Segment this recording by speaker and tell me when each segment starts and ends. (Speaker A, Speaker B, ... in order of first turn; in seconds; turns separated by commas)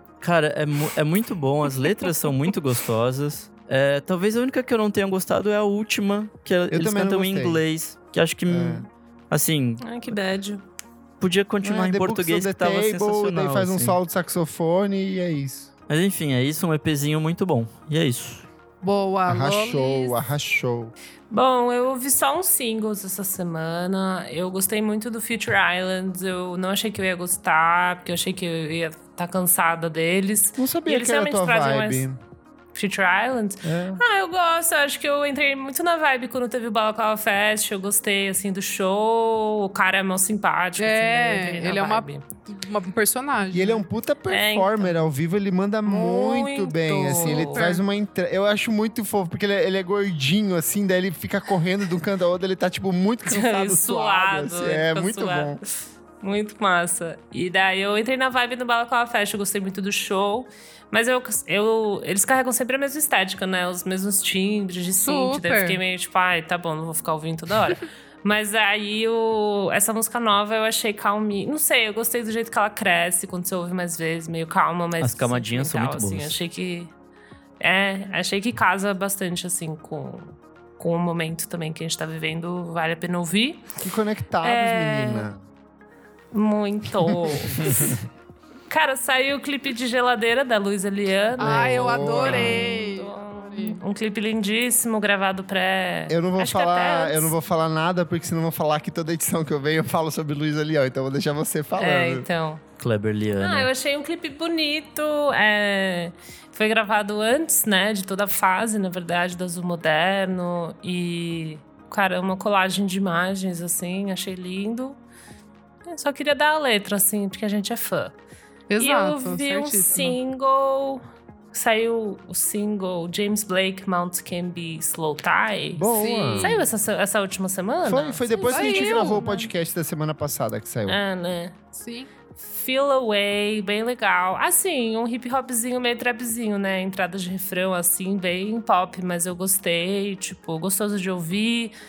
Speaker A: 0.2-9.8, Speaker B: 6.7-7.6, Speaker B: 8.5-8.9, Speaker C: 9.8-10.6, Speaker A: 11.2-14.0, Speaker B: 11.6-15.7, Speaker A: 15.9-18.4, Speaker D: 18.8-20.2, Speaker B: 19.3-20.9, Speaker C: 21.3-32.1, Speaker B: 30.6-32.2, Speaker C: 32.7-42.2, Speaker B: 33.6-34.0, Speaker D: 40.8-43.9, Speaker B: 43.5-55.6, Speaker C: 44.3-45.0, Speaker C: 45.9-47.7, Speaker D: 47.1-47.8, Speaker C: 53.3-55.6, Speaker C: 56.2-76.9, Speaker D: 65.0-65.8, Speaker A: 75.0-76.4, Speaker C: 77.6-83.7, Speaker B: 83.8-85.4, Speaker C: 84.4-85.3, Speaker C: 86.3-88.0, Speaker C: 88.7-97.3, Speaker D: 91.4-93.8, Speaker B: 91.5-92.7, Speaker B: 96.1-102.3, Speaker C: 101.8-102.6, Speaker A: 102.8-103.7, Speaker C: 103.4-115.0, Speaker C: 115.9-118.2, Speaker D: 118.7-120.2, Speaker C: 118.8-129.2, Speaker B: 125.8-126.6, Speaker D: 125.9-126.7, Speaker B: 127.8-131.0, Speaker D: 128.5-129.5, Speaker C: 130.9-131.6, Speaker D: 131.7-132.1, Speaker C: 132.4-141.7